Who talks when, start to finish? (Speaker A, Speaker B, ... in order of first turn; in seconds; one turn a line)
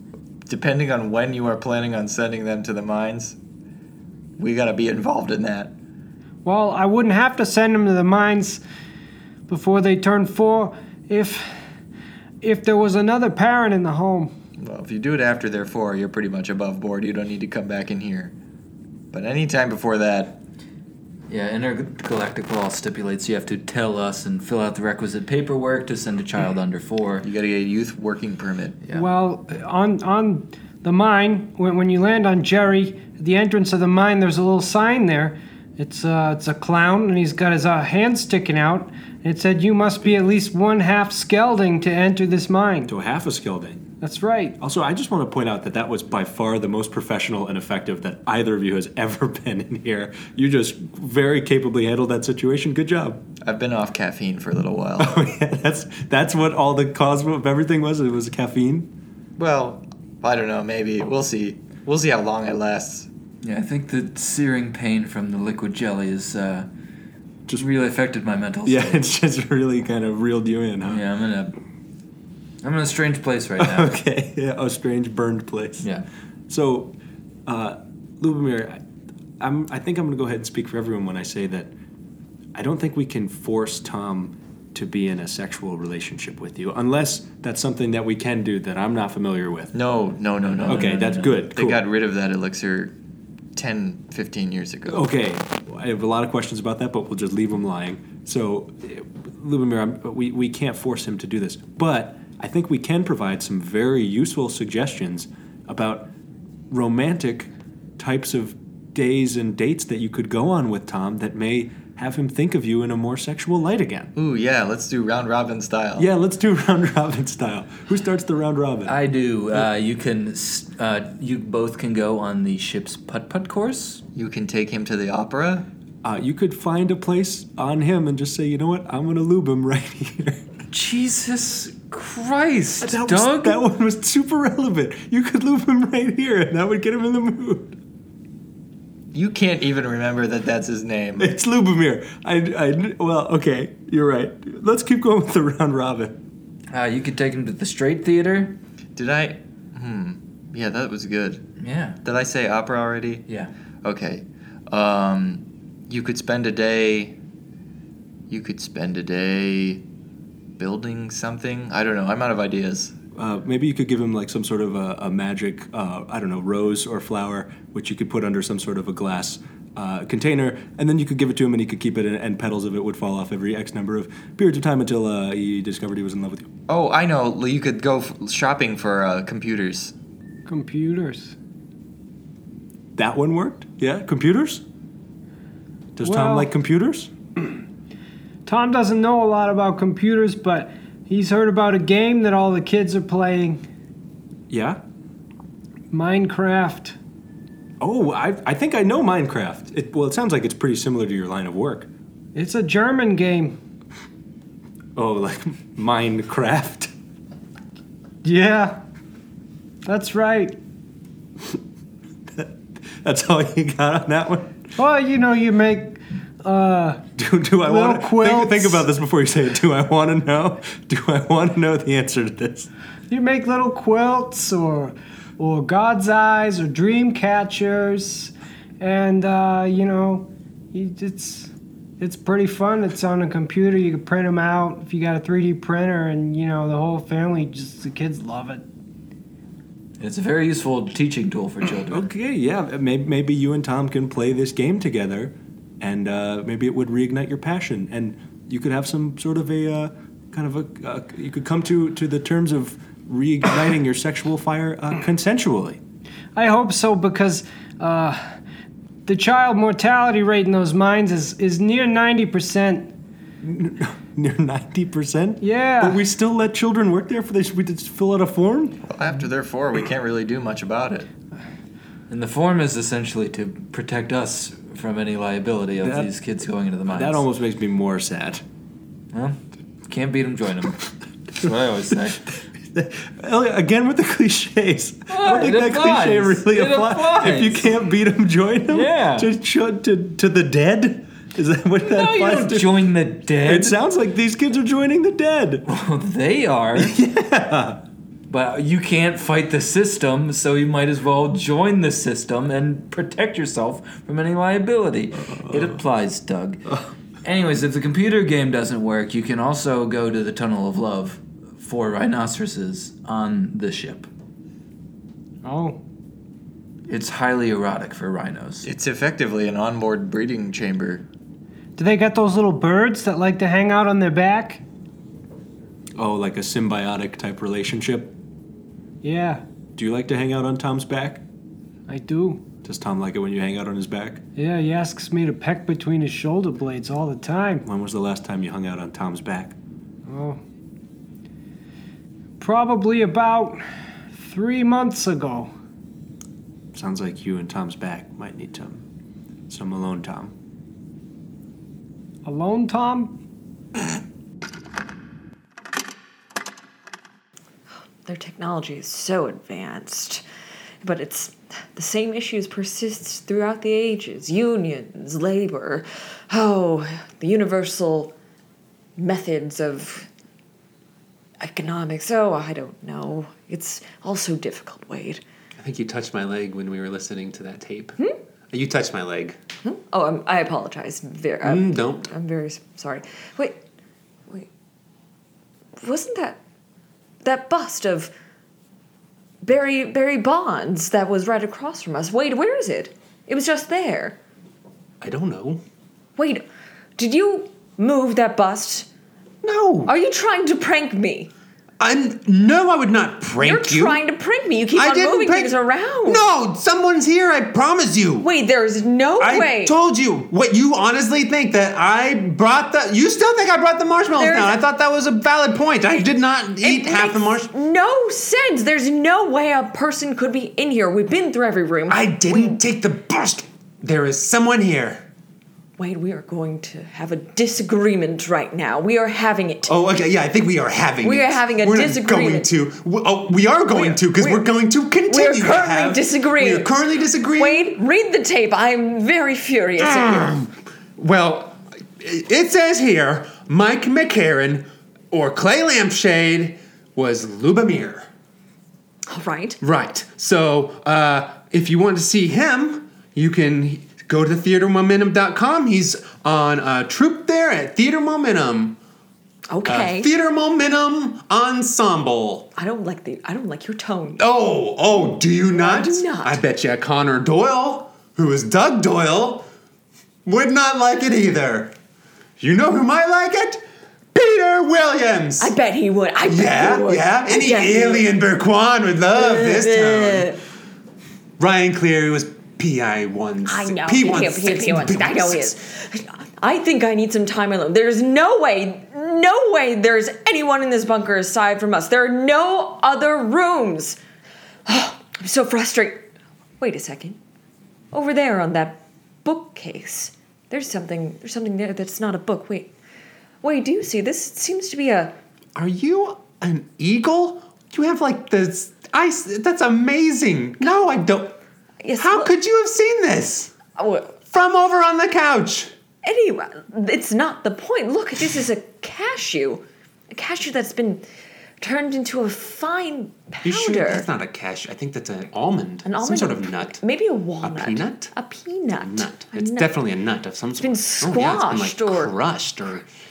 Speaker A: 0.5-3.4
Speaker A: 4.4-5.7
Speaker B: 6.5-8.6
Speaker B: 9.5-11.5
Speaker B: 12.4-14.3
Speaker A: 14.6-18.3
Speaker A: 19.1-20.4
Speaker C: 21.3-27.3
Speaker A: 27.2-28.8
Speaker B: 28.9-42.9
Speaker D: 42.9-43.8
Speaker B: 44.0-44.6
Speaker D: 44.6-53.2
Speaker A: 53.4-55.2
Speaker D: 55.0-58.9
Speaker A: 59.4-63.1
Speaker C: 63.4-66.7
Speaker C: 67.5-69.0
Speaker D: 68.7-71.0
Speaker C: 70.9-71.6
Speaker C: 72.6-74.0
Speaker D: 73.6-75.8
Speaker C: 75.8-76.0
Speaker D: 76.5-76.9
Speaker D: 77.5-78.8
Speaker D: 79.4-81.7
Speaker D: 82.5-89.7
Speaker A: 89.7-92.9
Speaker D: 90.6-91.8
Speaker C: 90.6-91.4
Speaker A: 93.5-95.1
Speaker D: 94.9-106.1
Speaker D: 106.7-114.1
Speaker A: 114.1-116.1
Speaker D: 116.0-119.0
Speaker C: 118.8-124.0
Speaker A: 124.1-125.7
Speaker D: 126.0-130.4
Speaker C: 130.7-133.7
Speaker D: 132.8-137.8
Speaker A: 139.1-141.3
Speaker D: 141.2-146.2
Speaker C: 146.7-148.6
Speaker A: 148.9-151.4
Speaker C: 151.6-152.0
Speaker A: 152.0-153.2
Speaker A: 153.8-157.2
Speaker A: 158.3-159.8
Speaker A: 160.6-162.9
Speaker D: 163.1-176.5
Speaker A: 176.7-179.9
Speaker B: 180.4-181.3
Speaker D: 182.9-184.6
Speaker D: 185.9-187.1
Speaker B: 186.0-186.5
Speaker B: 188.4-193.6
Speaker D: 194.5-194.8
Speaker B: 195.9-196.9
Speaker D: 197.8-201.9
Speaker B: 202.3-203.6
Speaker D: 204.9-206.9
Speaker B: 208.2-208.8
Speaker B: 209.9-210.6
Speaker D: 212.3-214.6
Speaker B: 214.8-217.1
Speaker D: 217.2-222.7
Speaker B: 217.6-218.9
Speaker B: 223.1-238.6
Speaker C: 240.0-242.1
Speaker D: 241.9-255.8
Speaker B: 256.4-258.2
Speaker B: 259.1-262.9
Speaker D: 263.4-268.8
Speaker B: 265.4-266.0
Speaker A: 268.9-271.1
Speaker C: 272.1-277.3
Speaker D: 275.8-276.1
Speaker D: 276.9-278.4
Speaker C: 279.1-282.3
Speaker D: 282.3-292.9
Speaker C: 285.1-287.7
Speaker C: 288.7-289.3
Speaker C: 291.8-293.8
Speaker D: 293.4-295.6
Speaker C: 295.7-296.9
Speaker D: 296.7-297.8
Speaker C: 298.3-306.7
Speaker D: 305.3-305.8
Speaker C: 307.2-314.1
Speaker B: 315.4-315.8
Speaker C: 316.9-318.7
Speaker A: 318.6-321.1
Speaker B: 321.8-324.6
Speaker D: 325.9-328.1
Speaker B: 329.0-329.4
Speaker D: 329.8-331.2
Speaker B: 331.9-332.4
Speaker D: 332.6-334.2
Speaker B: 334.4-337.6
Speaker D: 337.6-339.6
Speaker B: 340.1-340.4
Speaker B: 342.4-343.6
Speaker B: 344.1-345.5
Speaker D: 346.7-348.8
Speaker D: 349.5-350.3
Speaker B: 352.2-353.2
Speaker E: 358.1-360.2
Speaker E: 360.8-368.1
Speaker E: 369.0-370.1
Speaker E: 371.4-375.2
Speaker F: 375.6-377.9
Speaker F: 378.5-379.4
Speaker E: 379.6-383.6
Speaker F: 381.4-382.1
Speaker E: 385.8-386.4
Speaker E: 387.2-388.1
Speaker E: 389.4-394.2
Speaker F: 395.0-395.6
Speaker E: 396.2-396.4
Speaker E: 397.0-398.9
Speaker F: 399.4-399.9
Speaker E: 399.9-401.3
Speaker F: 401.8-404.0
Speaker E: 403.4-406.2
Speaker F: 404.7-408.3
Speaker E: 408.2-409.7
Speaker F: 409.2-417.5
Speaker E: 414.1-414.6
Speaker E: 416.6-422.6
Speaker F: 421.9-425.1
Speaker E: 425.8-429.7
Speaker F: 429.7-437.7
Speaker E: 431.0-432.5
Speaker E: 433.7-434.5
Speaker E: 435.1-436.7
Speaker E: 437.4-440.4
Speaker F: 439.8-448.1
Speaker E: 449.1-449.6
Speaker F: 449.6-458.8
Speaker E: 459.5-460.1
Speaker F: 459.6-462.5
Speaker E: 462.6-464.2
Speaker F: 464.2-469.5
Speaker E: 465.2-466.4
Speaker F: 470.2-471.7
Speaker F: 472.4-475.5
Speaker E: 475.4-478.1
Speaker F: 476.2-480.4
Speaker E: 479.1-480.4
Speaker F: 481.4-485.6
Speaker E: 483.4-494.0
Speaker E: 494.7-496.1
Speaker E: 496.6-497.2
Speaker E: 497.9-502.7
Speaker E: 503.4-505.1
Speaker F: 505.6-511.4
Speaker E: 511.8-512.3
Speaker F: 512.0-513.5
Speaker E: 513.8-514.2
Speaker F: 514.3-515.7
Speaker E: 516.0-521.0
Speaker E: 521.6-524.1
Speaker F: 523.4-526.8
Speaker E: 525.8-529.7
Speaker F: 527.4-528.1
Speaker F: 528.7-532.9
Speaker E: 530.6-532.1